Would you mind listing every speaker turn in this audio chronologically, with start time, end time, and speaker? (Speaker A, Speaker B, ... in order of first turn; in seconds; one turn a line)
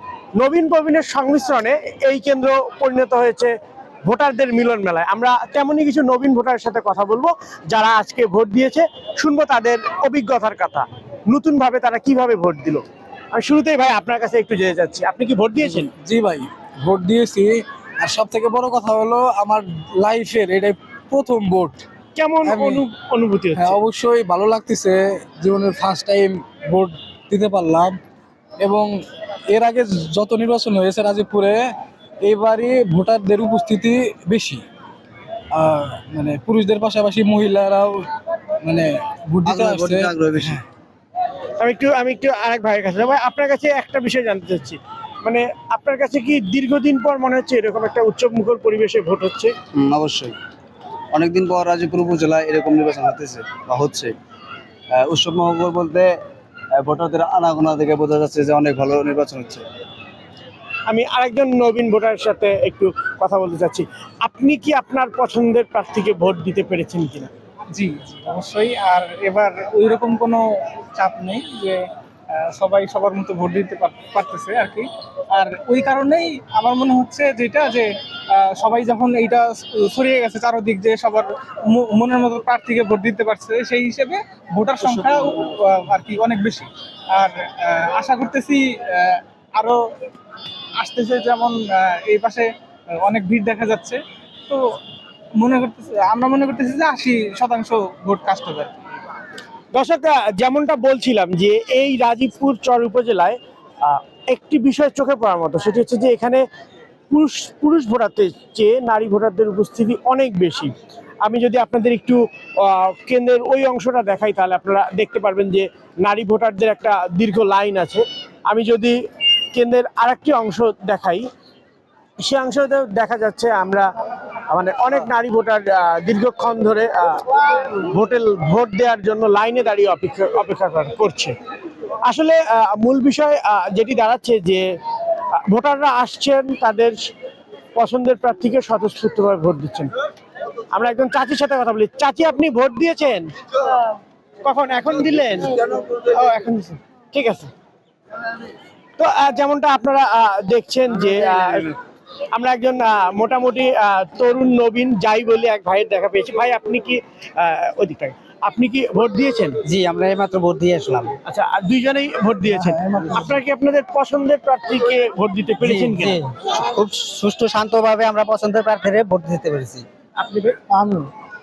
Speaker A: 0.4-3.5
Speaker A: 4.0-15.9
Speaker B: 15.8-21.8
Speaker A: 22.1-23.8
Speaker B: 22.4-22.9
Speaker B: 23.6-28.0
Speaker B: 28.6-28.9
Speaker B: 29.5-31.7
Speaker B: 32.2-34.6
Speaker B: 35.5-38.1
Speaker B: 38.6-40.6
Speaker C: 39.4-40.6
Speaker A: 41.6-49.5
Speaker C: 49.7-50.4
Speaker C: 51.1-54.1
Speaker C: 54.9-56.1
Speaker C: 56.8-59.6
Speaker A: 60.9-67.3
Speaker D: 67.7-89.8
Speaker D: 90.8-92.5
Speaker D: 93.0-94.8
Speaker D: 95.4-98.7
Speaker A: 99.7-106.4
Speaker A: 107.1-110.7
Speaker A: 111.2-119.0
Speaker A: 119.5-121.3
Speaker A: 122.2-123.9
Speaker A: 124.5-131.3
Speaker A: 132.1-134.7
Speaker A: 135.5-137.0
Speaker A: 137.8-139.9
Speaker A: 140.7-143.3
Speaker A: 144.4-147.5
Speaker A: 149.0-151.8
Speaker A: 152.3-159.6
Speaker E: 159.6-161.2
Speaker A: 161.2-166.2
Speaker B: 162.5-163.4
Speaker E: 165.6-169.8
Speaker A: 170.2-170.6